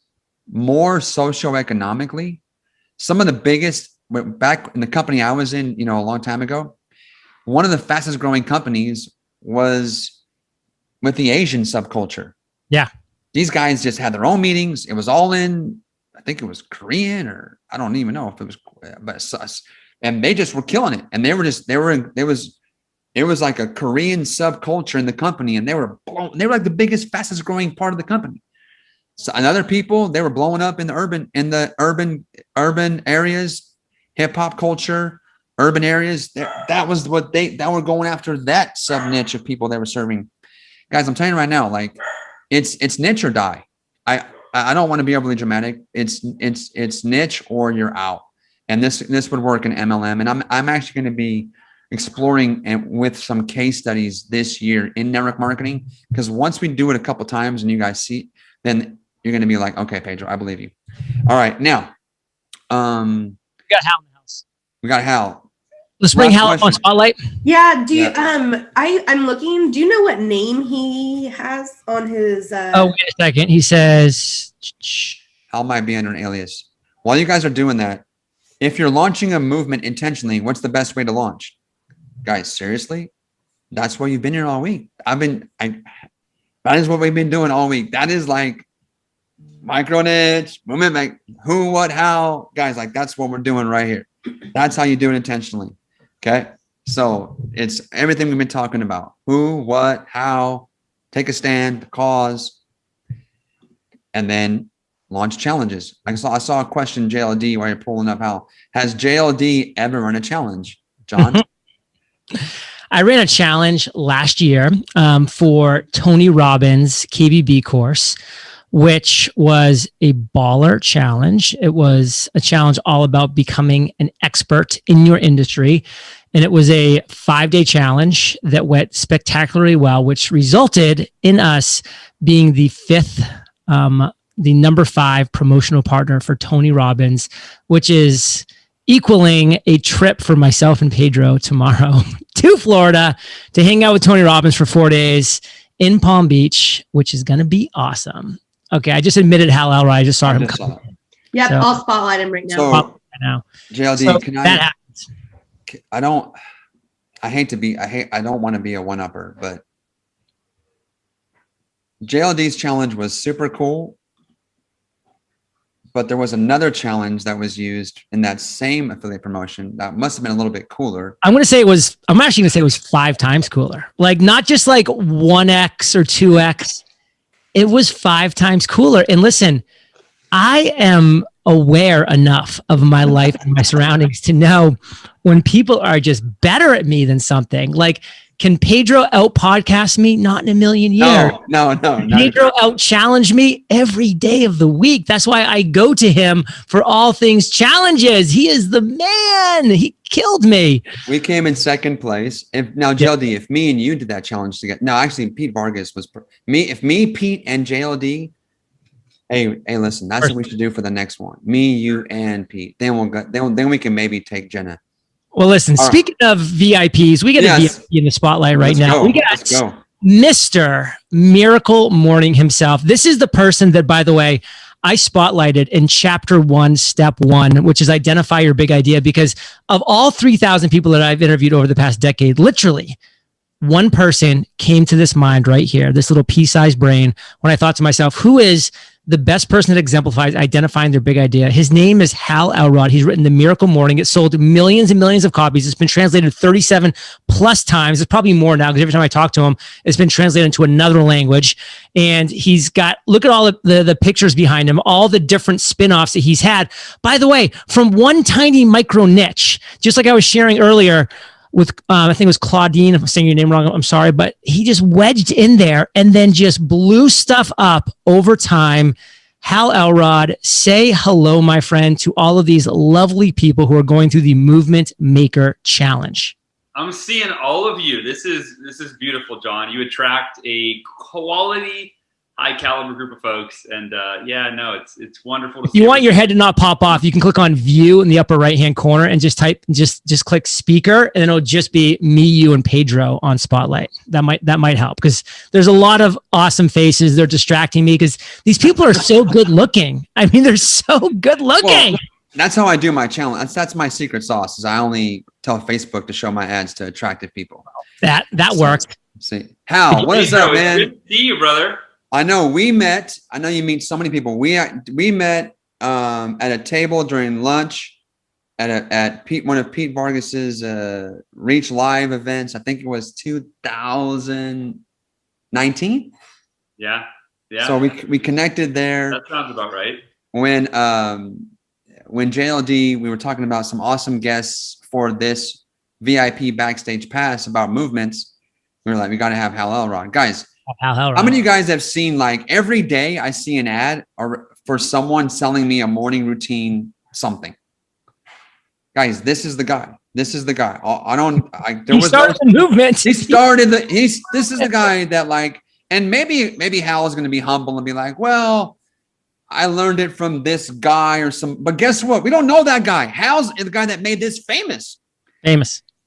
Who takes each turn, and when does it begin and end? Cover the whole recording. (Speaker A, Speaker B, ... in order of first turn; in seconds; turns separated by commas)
Speaker A: 0.5-2.4, Speaker A: 3.0-6.8, Speaker A: 7.5-10.2, Speaker A: 11.0-12.3, Speaker A: 13.3-22.6, Speaker A: 23.1-28.4, Speaker A: 29.2-40.3, Speaker A: 40.9-42.0, Speaker A: 42.5-60.7, Speaker A: 61.2-61.9, Speaker A: 62.7-63.4, Speaker B: 63.7-64.4, Speaker A: 64.8-65.5, Speaker B: 66.0-67.2, Speaker A: 66.1-66.8, Speaker C: 67.5-72.9, Speaker A: 67.9-68.2, Speaker B: 72.7-75.2, Speaker A: 75.5-78.0, Speaker A: 78.6-81.5, Speaker A: 82.2-83.1, Speaker A: 83.7-85.8, Speaker A: 86.6-88.7, Speaker A: 89.6-102.6, Speaker A: 104.1-111.4, Speaker B: 112.9-118.2, Speaker B: 118.7-150.6, Speaker A: 150.2-150.8, Speaker C: 151.3-152.8, Speaker A: 152.5-152.9, Speaker B: 152.7-153.4, Speaker A: 153.7-154.7, Speaker B: 154.0-155.0, Speaker A: 155.7-156.3, Speaker A: 157.2-159.6, Speaker A: 162.0-164.0, Speaker A: 165.9-171.2, Speaker B: 171.2-176.8, Speaker B: 177.6-179.6, Speaker B: 180.3-191.4, Speaker A: 191.0-192.5, Speaker B: 192.0-200.8, Speaker A: 201.1-208.3, Speaker A: 209.3-214.8, Speaker B: 215.3-233.0, Speaker A: 217.4-217.8, Speaker A: 218.6-219.8, Speaker B: 233.6-276.4, Speaker D: 276.8-286.3, Speaker B: 285.7-302.0, Speaker A: 301.6-307.6, Speaker B: 308.0-308.9, Speaker A: 308.5-310.9, Speaker D: 309.9-311.8, Speaker A: 312.1-318.0, Speaker A: 318.6-324.8, Speaker A: 325.5-326.1, Speaker D: 326.8-327.9, Speaker A: 327.6-329.2, Speaker D: 329.1-330.0, Speaker A: 330.3-331.5, Speaker A: 332.1-338.3, Speaker A: 338.9-340.5, Speaker B: 340.8-341.4, Speaker A: 341.1-347.6, Speaker A: 348.9-352.5, Speaker B: 351.9-353.4, Speaker A: 353.0-358.8, Speaker A: 359.5-365.0, Speaker B: 365.4-365.8